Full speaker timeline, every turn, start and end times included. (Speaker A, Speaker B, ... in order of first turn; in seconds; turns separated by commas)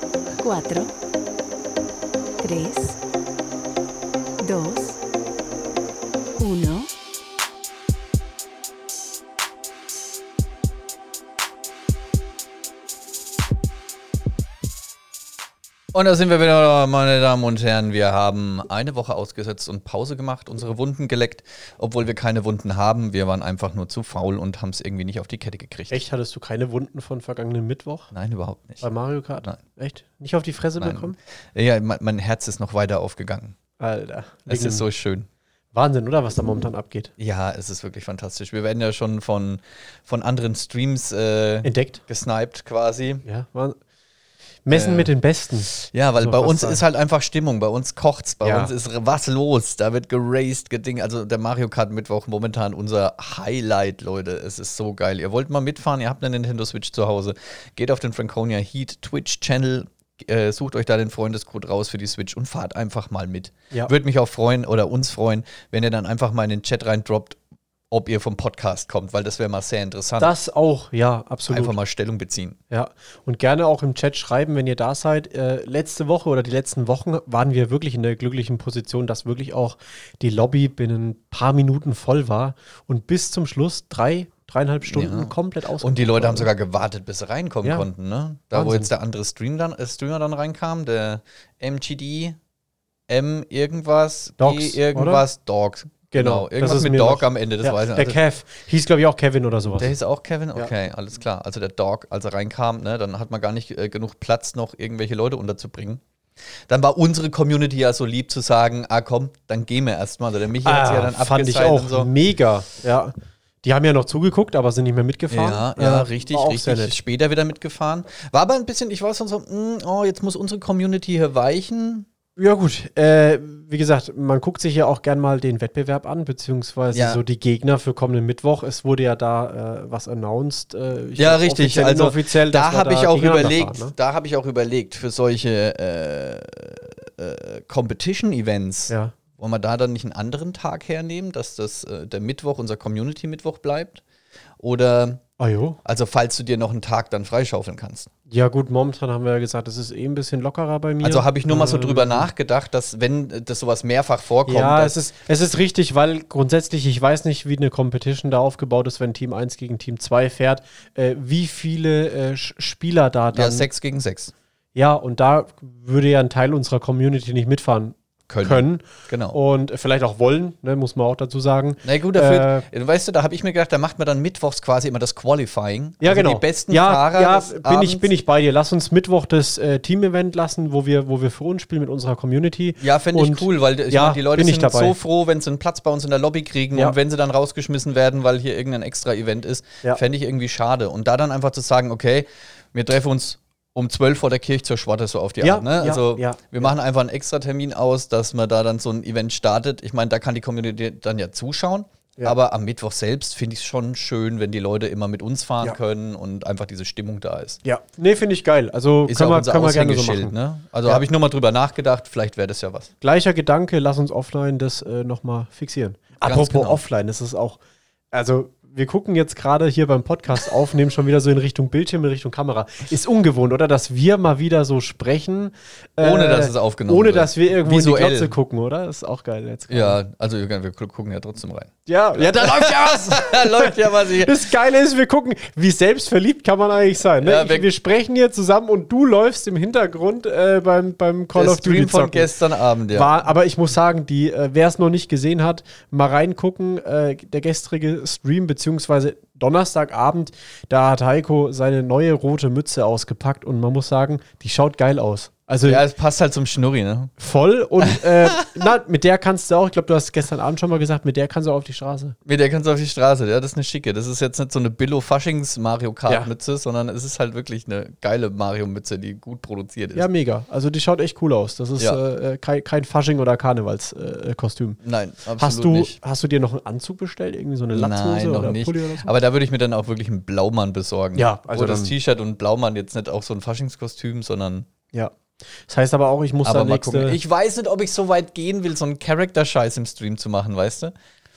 Speaker A: 0.4-0.9, Speaker A: 2.4-3.0, Speaker A: 4.4-5.0, Speaker A: 6.4-6.9, Speaker B: 15.9-26.0, Speaker C: 25.9-28.1, Speaker B: 28.1-28.8, Speaker C: 28.8-31.1, Speaker B: 30.8-33.5, Speaker C: 33.8-34.8, Speaker B: 34.5-35.3, Speaker C: 35.7-37.1, Speaker B: 37.2-43.2, Speaker C: 41.6-42.0, Speaker C: 43.2-43.8, Speaker C: 44.6-46.8, Speaker B: 44.7-45.1, Speaker B: 45.7-67.4, Speaker C: 48.4-48.7, Speaker B: 67.9-70.3, Speaker C: 70.2-71.8, Speaker B: 71.5-72.6, Speaker C: 72.7-86.5, Speaker B: 84.8-92.4, Speaker C: 88.5-88.9, Speaker B: 93.1-98.2, Speaker C: 94.4-95.2, Speaker C: 96.1-99.9, Speaker B: 99.8-106.0, Speaker B: 106.7-112.1, Speaker C: 110.6-116.9, Speaker B: 115.3-122.1, Speaker C: 122.4-133.9, Speaker B: 126.9-127.2, Speaker B: 131.2-144.0, Speaker B: 144.6-145.2, Speaker C: 145.4-145.8, Speaker B: 145.8-148.1, Speaker C: 148.3-152.3, Speaker B: 151.0-155.0, Speaker C: 154.4-163.7, Speaker B: 163.3-164.3, Speaker C: 164.7-172.6, Speaker B: 168.3-169.4, Speaker B: 171.8-178.1, Speaker C: 176.0-185.0, Speaker B: 182.8-207.6, Speaker C: 195.4-196.7, Speaker C: 207.6-210.3, Speaker B: 209.1-212.9, Speaker C: 213.0-217.6, Speaker B: 216.2-216.8, Speaker C: 218.1-230.0, Speaker B: 226.0-228.3, Speaker B: 229.7-234.4, Speaker C: 231.8-242.3, Speaker B: 237.2-237.7, Speaker B: 241.3-243.1, Speaker C: 242.9-255.8, Speaker B: 255.6-257.1, Speaker C: 257.2-262.1, Speaker B: 257.8-258.5, Speaker B: 262.2-270.1, Speaker C: 269.9-274.8, Speaker B: 274.8-275.9, Speaker C: 275.4-279.1, Speaker B: 277.7-284.7, Speaker C: 281.1-281.9, Speaker C: 284.9-287.2, Speaker B: 286.4-290.9